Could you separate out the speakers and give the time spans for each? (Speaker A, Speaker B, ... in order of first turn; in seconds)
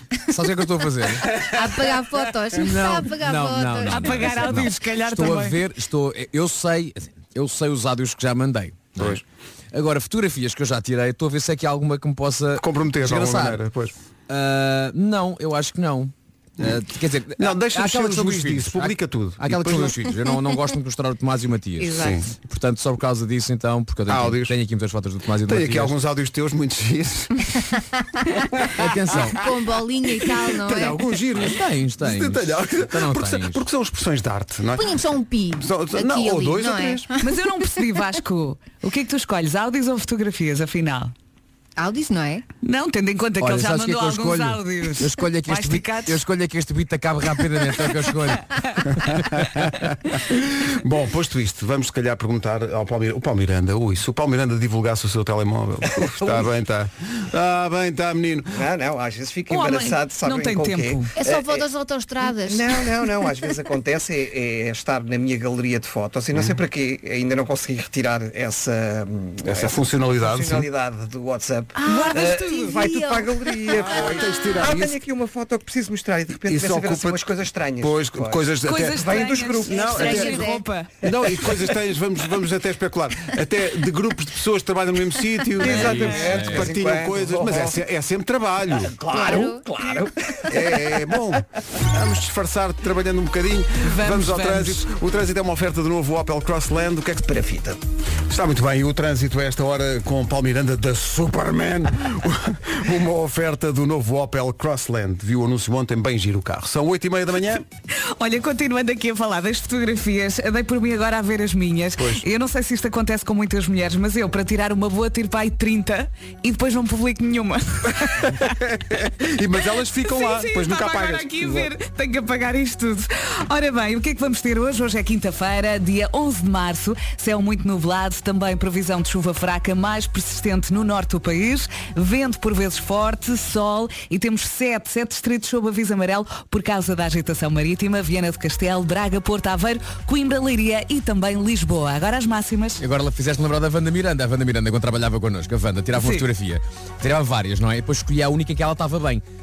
Speaker A: 0.3-1.3, 2.5-9.2, 9.7-13.6, 14.3-25.9, 28.8-29.4, 31.4-33.6, 43.4-49.9, 86.2-86.7, 142.8-149.2
Speaker B: 1.5-4.6, 21.8-22.2, 29.3-31.1, 34.7-37.1, 41.8-42.4, 61.1-63.3, 71.8-74.0, 79.7-80.6, 89.1-89.6
Speaker C: 3.9-5.6, 37.2-41.1, 42.6-46.2, 59.5-61.1, 71.8-73.2, 78.6-80.9, 85.6-86.5, 93.8-94.8, 107.9-118.5, 120.0-142.8, 145.9-146.3
Speaker D: 8.9-9.2, 12.6-13.9, 17.4-20.0, 21.9-22.3, 24.1-24.6, 25.4-27.3, 28.6-29.3, 30.5-35.0, 35.6-37.1, 49.0-58.6, 66.3-66.6, 69.4-70.7, 73.7-75.0, 76.3-80.4, 81.0-89.0, 90.5-97.4, 98.3-107.6, 112.0-112.2, 118.3-121.7
Speaker E: 56.1-56.5, 58.5-61.7, 62.2-80.3, 81.1-81.7, 85.7-87.8, 88.6-91.2, 97.3-97.8